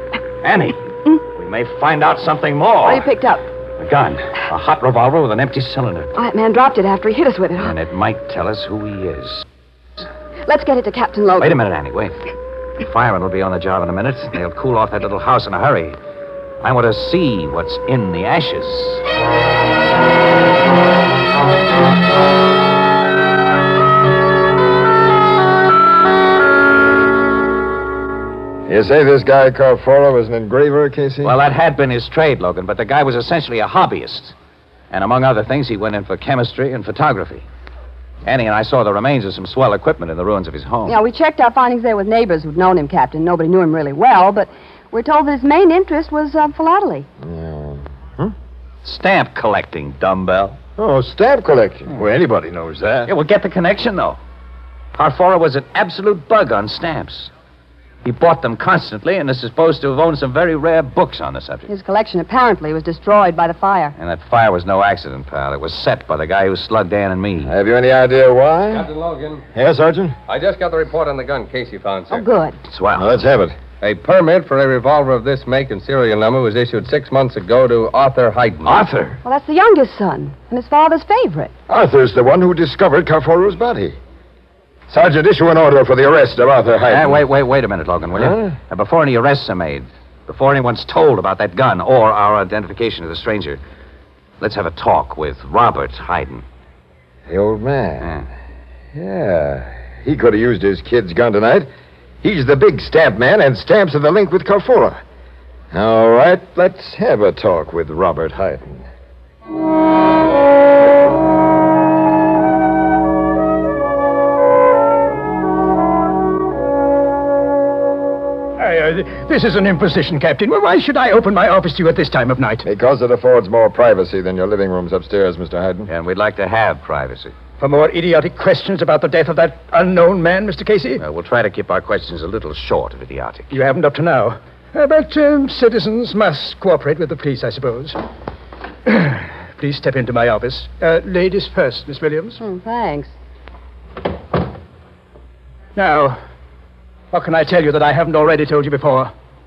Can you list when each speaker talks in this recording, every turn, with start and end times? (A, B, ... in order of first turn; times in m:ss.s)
0:00.4-0:03.0 A
0:02.8-0:03.4 B
0:03.8-0:06.1 A
0:06.1-0:07.7 B
0:07.6-0:09.4 A
0:10.4-0:11.6 B
0:11.4-0:12.2 A
0:12.8-0:16.0 A
0:16.6-0:19.0 A
0:28.7-0:31.3 C
0:31.2-0:34.3 A
0:34.9-0:37.4 A
0:38.2-0:41.0 A
0:40.9-0:47.1 B
0:47.2-0:48.3 C
0:48.8-0:50.6 A
0:50.8-0:53.1 C
0:53.0-0:54.2 A
0:54.9-0:57.3 A
0:58.0-1:01.7 A
1:01.7-1:03.9 B
1:04.0-1:07.5 A
1:07.4-1:08.9 C
1:08.7-1:09.4 D
1:09.5-1:10.1 C
1:10.3-1:12.2 D
1:12.1-1:12.5 B
1:12.7-1:13.1 A
1:12.9-1:13.5 C
1:13.8-1:18.9 D
1:19.2-1:21.5 B
1:21.7-1:24.0 C
1:24.9-1:27.2 C
1:26.9-1:33.6 A
1:28.1-1:28.5 C
1:34.4-1:36.4 A
1:37.3-1:38.1 C
1:38.0-1:38.3 A
1:38.9-1:41.7 C
1:42.2-1:45.0 C
1:45.7-1:48.8 C
1:58.6-2:02.6 E
2:02.6-2:05.9 C
2:05.9-2:07.3 A
2:07.6-2:11.0 E
2:11.0-2:13.5 A
2:13.5-2:18.0 E
2:18.8-2:22.4 E
2:22.4-2:23.1 B
2:25.8-2:26.2 E
2:27.1-2:29.1 E